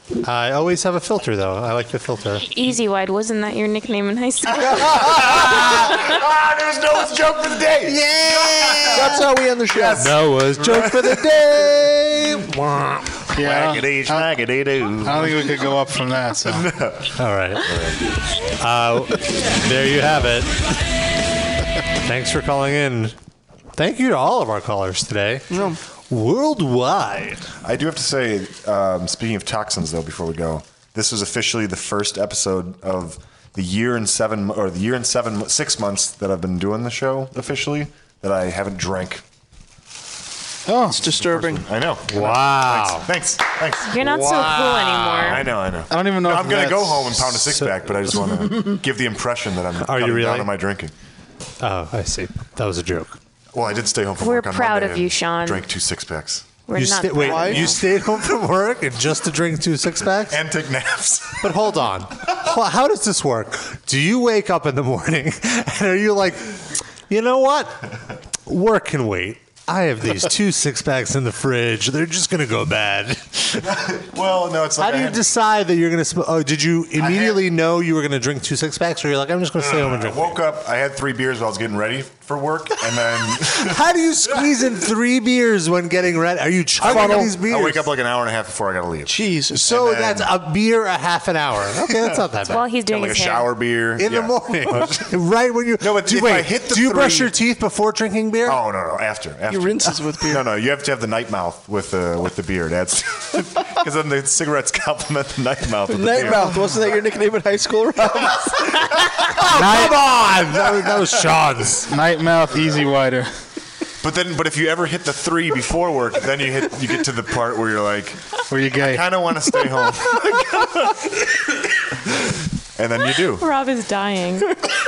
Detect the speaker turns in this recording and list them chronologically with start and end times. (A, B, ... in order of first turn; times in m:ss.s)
0:00.2-0:02.5 A
0:02.5-0:06.0 B
0:06.0-0:09.2 C
0:07.9-0:09.2 A
0:08.9-0:12.0 D
0:09.7-0:11.2 C
0:10.0-0:13.1 A
0:13.4-0:14.3 E
0:13.4-0:15.5 C
0:15.0-0:16.7 E
0:16.5-0:18.0 C
0:17.2-0:17.7 A
0:18.6-0:20.5 A
0:22.0-0:23.2 A
0:23.8-0:27.4 A
0:25.5-0:25.8 D
0:27.6-0:39.2 C
0:40.7-0:41.0 E
0:40.9-0:41.7 D
0:41.1-0:43.9 C
0:42.1-0:43.1 A
0:43.9-0:45.5 B
0:44.0-0:45.4 A
0:45.2-0:50.9 C
0:45.9-0:47.3 E
0:49.8-0:50.5 A
0:51.6-0:53.2 A
0:53.5-0:56.5 C
0:54.2-0:55.7 B
0:56.7-0:57.8 B
0:56.7-1:00.4 A
0:57.2-0:57.7 D
1:00.3-1:01.5 C
1:01.4-1:07.8 A
1:08.5-1:13.6 A
1:13.6-1:15.2 C
1:14.8-1:20.4 A
1:17.0-1:17.4 C
1:19.6-1:23.8 C
1:23.6-1:27.9 A
1:26.8-1:30.3 C
1:26.8-1:27.3 D
1:29.1-1:29.6 D
1:29.5-1:32.6 A
1:32.5-1:33.5 B
1:32.9-1:35.0 C
1:34.0-1:38.6 A
1:35.8-1:37.3 C
1:38.5-1:46.5 C
1:39.5-1:40.5 D
1:45.9-1:48.6 D
1:49.3-1:51.9 A
1:51.9-1:53.3 E
1:54.0-1:58.2 C
1:58.5-1:59.0 E
1:58.8-2:01.0 C
2:02.8-2:03.5 C
2:03.4-2:04.6 B